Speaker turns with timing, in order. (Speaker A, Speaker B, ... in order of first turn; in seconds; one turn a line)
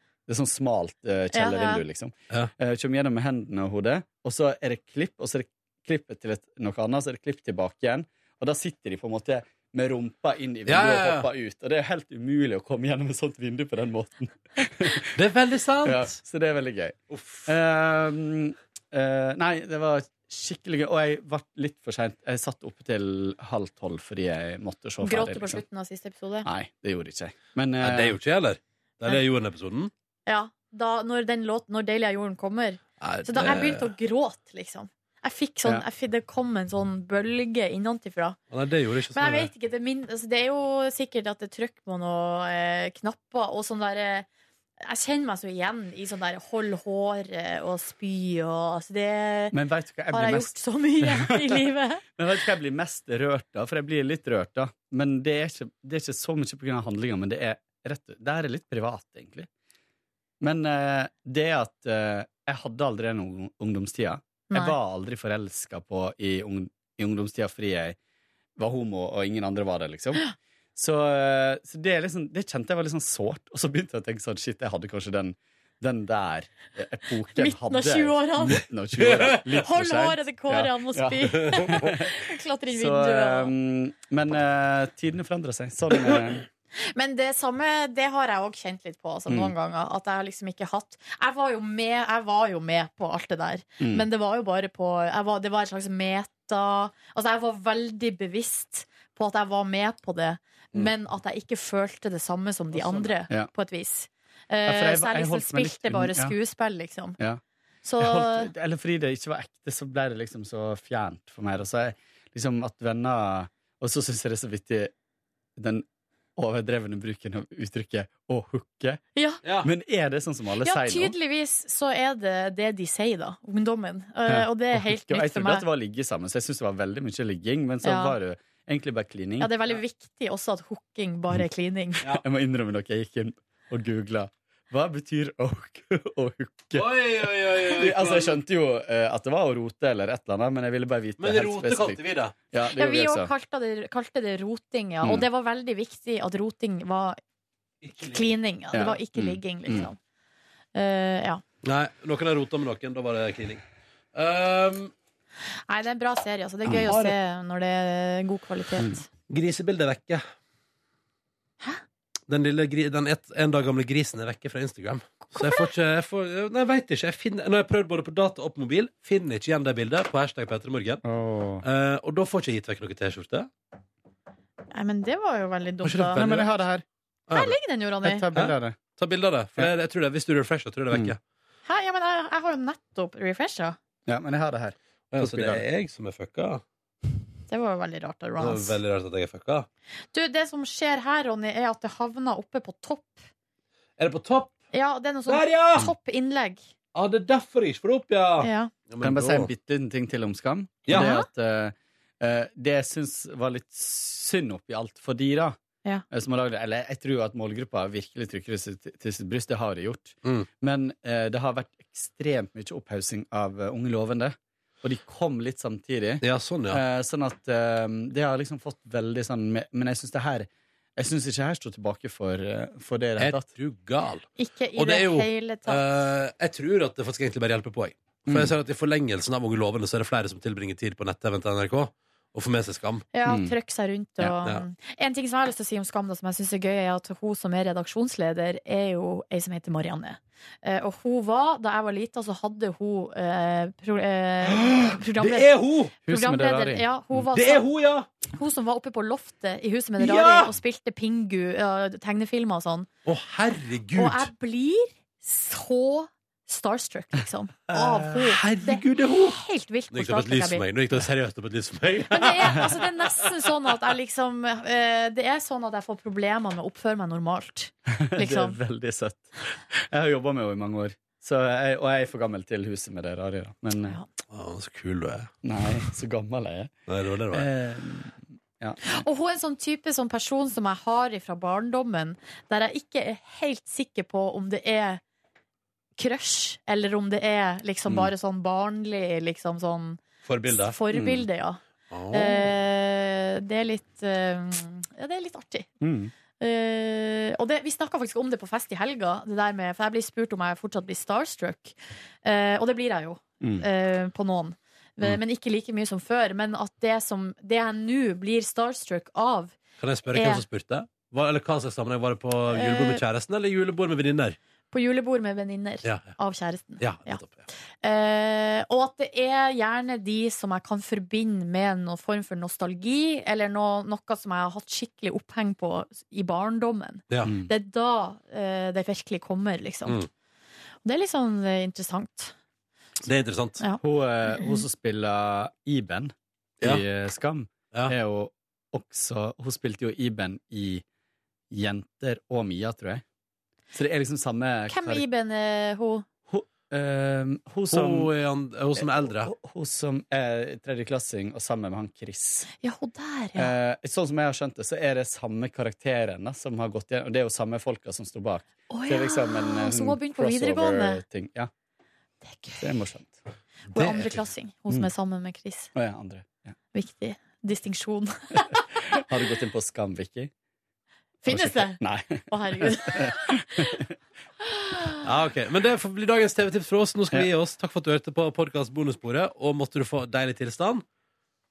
Speaker A: 0.3-15.2
Speaker B: 1.3-1.8
Speaker C: 10.7-11.3
Speaker C: 15.1-16.2
Speaker A: 15.8-25.6
Speaker C: 17.1-17.5
Speaker B: 25.0-26.5
Speaker A: 26.4-28.2
Speaker C: 27.8-29.9
Speaker B: 30.3-38.4
Speaker C: 33.0-33.9
Speaker C: 38.5-39.5
Speaker B: 39.1-44.3
Speaker B: 44.8-49.5
Speaker A: 49.5-59.5
Speaker B: 50.1-52.0
Speaker A: 60.4-68.0
Speaker A: 68.6-82.1
Speaker B: 77.4-78.7
Speaker C: 79.0-79.4
Speaker B: 79.5-83.5
Speaker A: 82.7-86.5
Speaker B: 86.8-107.2
Speaker A: 89.3-89.5
Speaker A: 93.8-94.0
Speaker C: 102.7-103.1
Speaker A: 104.6-106.4
Speaker B: 107.8-108.5
Speaker A: 108.0-114.9
Speaker A: 115.6-115.9
Speaker A: 116.4-119.1
Speaker B: 119.2-119.4
Speaker C: 119.4-119.7
Speaker A: 119.6-121.2
Speaker B: 120.6-125.7
Speaker A: 124.3-129.5
Speaker B: 127.8-128.2
Speaker B: 129.4-132.0
Speaker A: 132.0-142.0
Speaker C: 136.7-138.4
Speaker C: 141.2-142.3
Speaker A: 142.5-143.3
Speaker B: 142.8-147.2
Speaker C: 147.8-148.3
Speaker B: 148.1-150.0
Speaker A: 148.7-149.9
Speaker B: 150.8-151.4
Speaker C: 151.6-153.6
Speaker C: 154.1-154.9
Speaker B: 155.7-159.1
Speaker C: 156.8-157.2
Speaker C: 159.3-160.2
Speaker C: 162.3-171.0
Speaker B: 165.4-165.7
Speaker A: 171.0-171.7
Speaker C: 171.6-173.5
Speaker B: 174.7-176.3
Speaker C: 175.8-176.5
Speaker A: 176.1-176.8
Speaker C: 177.3-177.6
Speaker B: 177.3-178.3
Speaker A: 178.0-178.8
Speaker C: 178.3-181.2
Speaker B: 181.7-183.8
Speaker A: 184.1-185.6
Speaker C: 185.1-186.6
Speaker B: 187.5-188.8
Speaker C: 188.4-189.7
Speaker B: 190.1-193.3
Speaker C: 194.0-194.5
Speaker B: 194.7-196.6
Speaker C: 195.3-195.9
Speaker C: 196.9-199.5
Speaker B: 198.4-198.7
Speaker A: 199.0-205.6
Speaker C: 200.9-201.2
Speaker B: 200.9-201.3
Speaker A: 206.1-223.5
Speaker C: 216.2-216.8
Speaker C: 223.2-233.0
Speaker B: 224.4-225.8
Speaker A: 228.3-228.5
Speaker B: 233.1-245.5
Speaker A: 233.3-233.5
Speaker C: 234.2-234.6
Speaker A: 244.5-244.9
Speaker C: 245.2-245.9
Speaker A: 246.1-247.2
Speaker B: 246.1-247.7
Speaker C: 247.3-248.1
Speaker B: 248.3-252.9
Speaker C: 250.0-250.6
Speaker C: 253.1-254.3
Speaker B: 254.0-260.7
Speaker C: 257.7-259.4
Speaker C: 259.9-263.2
Speaker B: 262.1-268.6
Speaker A: 268.0-274.0
Speaker C: 274.3-275.3
Speaker A: 275.4-276.7
Speaker C: 276.9-277.5
Speaker A: 277.3-278.8
Speaker B: 278.8-285.0
Speaker B: 286.0-291.6
Speaker C: 290.2-290.8
Speaker A: 290.9-291.2
Speaker C: 291.9-292.5
Speaker B: 292.1-295.7
Speaker A: 295.8-296.1
Speaker B: 296.4-309.6
Speaker A: 303.4-303.7
Speaker C: 309.8-314.4
Speaker B: 310.1-310.4
Speaker B: 312.5-313.0
Speaker B: 314.7-317.2
Speaker C: 315.8-316.2
Speaker C: 316.8-317.5
Speaker B: 317.8-330.1
Speaker A: 327.2-327.5
Speaker B: 330.9-332.3
Speaker C: 333.0-333.6
Speaker B: 333.6-334.6
Speaker A: 333.8-340.8
Speaker A: 341.5-343.0
Speaker A: 343.7-345.1
Speaker B: 344.7-346.1
Speaker A: 346.3-348.1
Speaker C: 347.7-349.3
Speaker A: 348.8-352.5
Speaker B: 352.6-353.5
Speaker A: 353.4-361.5
Speaker B: 358.7-361.0
Speaker B: 362.2-362.8
Speaker A: 362.6-363.2
Speaker B: 363.7-365.7
Speaker A: 363.7-364.2
Speaker A: 365.8-366.6
Speaker B: 366.7-368.6
Speaker A: 368.9-370.3
Speaker B: 371.2-373.7
Speaker A: 371.3-373.8
Speaker B: 374.5-375.0
Speaker C: 375.0-380.9